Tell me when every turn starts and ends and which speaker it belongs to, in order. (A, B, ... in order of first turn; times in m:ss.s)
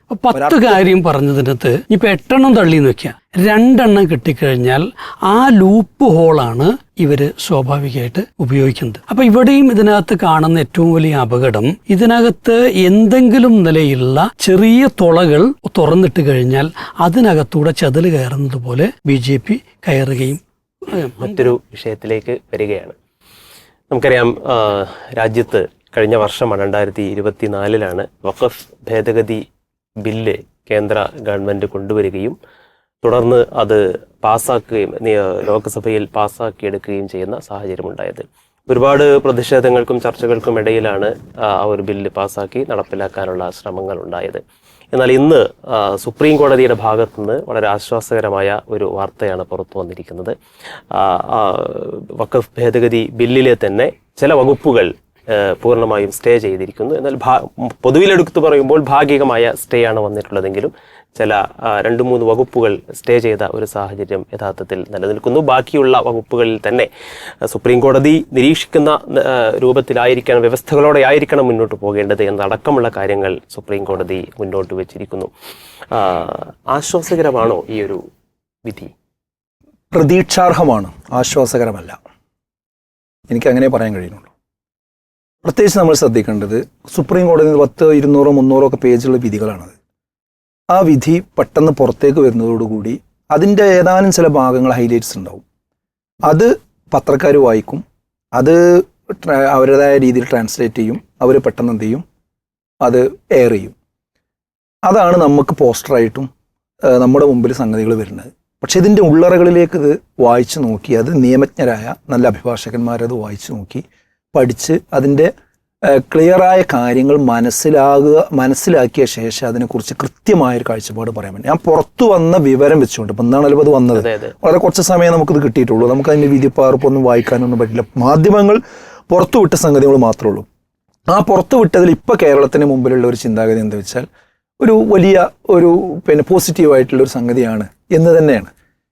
0:00.1-0:21.5 A
0:00.3-0:00.8 B
0:21.2-0:23.0 C
0:23.9-0:29.4 C
0:30.0-0:32.4 C
0:33.0-0:44.4 C
0:44.9-0:50.4 C
0:50.9-1:06.9 C
1:07.4-1:15.3 C
1:15.9-1:18.0 C
1:18.6-1:18.9 C
1:19.9-1:22.0 B
1:23.3-1:24.3 B
1:25.4-1:29.7 B
1:30.7-1:35.4 B
1:36.3-1:37.8 B
1:38.3-1:42.0 B
1:42.8-1:43.7 B
1:44.8-1:46.3 B
1:46.8-1:55.3 B
1:55.8-2:08.6 B
2:04.0-2:04.3 C
2:09.1-2:10.4 B
2:11.1-2:14.1 B
2:14.6-2:18.5 B